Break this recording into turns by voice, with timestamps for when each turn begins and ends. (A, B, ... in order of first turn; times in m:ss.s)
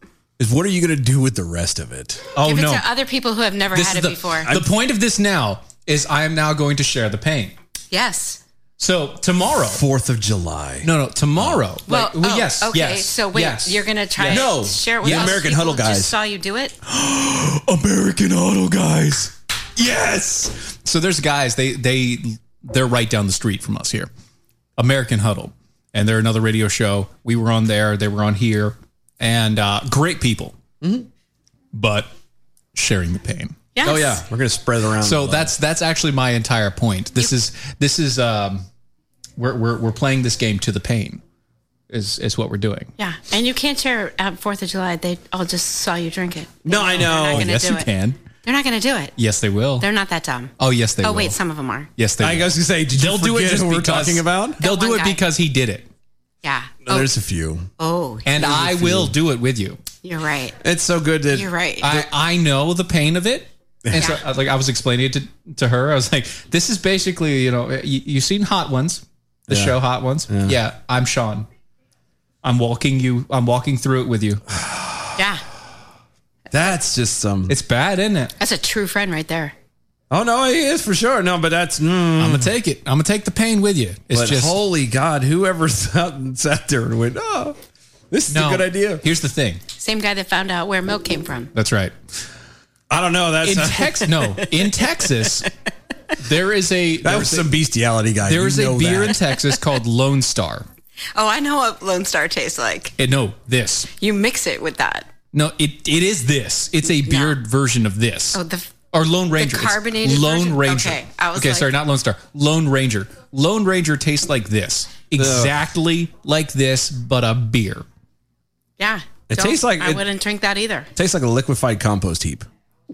0:00.4-0:02.3 A
0:02.3-0:02.8 B
0:02.4-0:04.5 C
0:03.7-0:07.5 B
0:07.9-0:08.4 C
0:08.8-0:09.8 B
0:09.7-0:11.6 A
0:10.8-0:15.4 B
0:11.9-0:16.7 C
0:14.2-0:16.1 A
0:16.9-0:24.1 B
0:24.8-0:30.5 B
0:30.8-0:31.1 A
0:31.7-0:32.1 B
0:32.7-0:33.6 B
0:33.7-0:34.2 C
0:33.8-0:35.5 A
0:35.0-0:38.6 B
0:39.4-0:41.2 B
0:41.9-0:42.9 B
0:43.0-0:47.9 C
0:46.6-0:47.5 A
0:46.9-0:48.2 B
0:48.4-0:49.1 C
0:49.2-0:49.9 B
0:49.8-0:51.9 C
0:50.6-0:51.3 B
0:52.0-0:55.8 B
0:52.2-0:54.6 A
0:54.6-0:55.2 C
0:56.4-0:57.1 C
0:56.8-0:57.7 A
0:57.8-0:58.4 C
0:58.2-0:59.8 B
0:58.4-0:59.1 A
1:00.0-1:00.6 C
1:00.6-1:02.1 A
1:01.3-1:01.9 C
1:01.8-1:11.5 B
1:03.8-1:04.1 A
1:03.9-1:04.2 C
1:09.5-1:09.8 A
1:10.3-1:10.6 A
1:12.4-1:14.4 B
1:14.5-1:15.1 A
1:15.2-1:15.4 C
1:16.5-1:17.5 A
1:17.5-1:18.3 B
1:18.4-1:19.5 C
1:20.1-1:22.5 A
1:22.2-1:24.6 B
1:24.1-1:27.6 A
1:28.1-1:29.0 A
1:28.3-1:29.6 B
1:29.8-1:31.5 C
1:31.5-1:31.9 B
1:32.9-1:34.0 A
1:33.4-1:35.5 B
1:36.2-1:37.5 B
1:37.0-1:39.2 A
1:38.2-1:40.6 B
1:41.1-1:42.9 C
1:43.0-1:43.9 B
1:44.0-1:45.1 C
1:45.3-1:48.4 B
1:46.9-1:47.4 C
1:48.3-1:48.7 C
1:48.9-1:57.8 B
1:49.4-1:51.7 C
1:55.2-1:55.5 A
1:58.8-2:00.9 C
1:59.3-2:00.0 A
2:01.0-2:02.4 A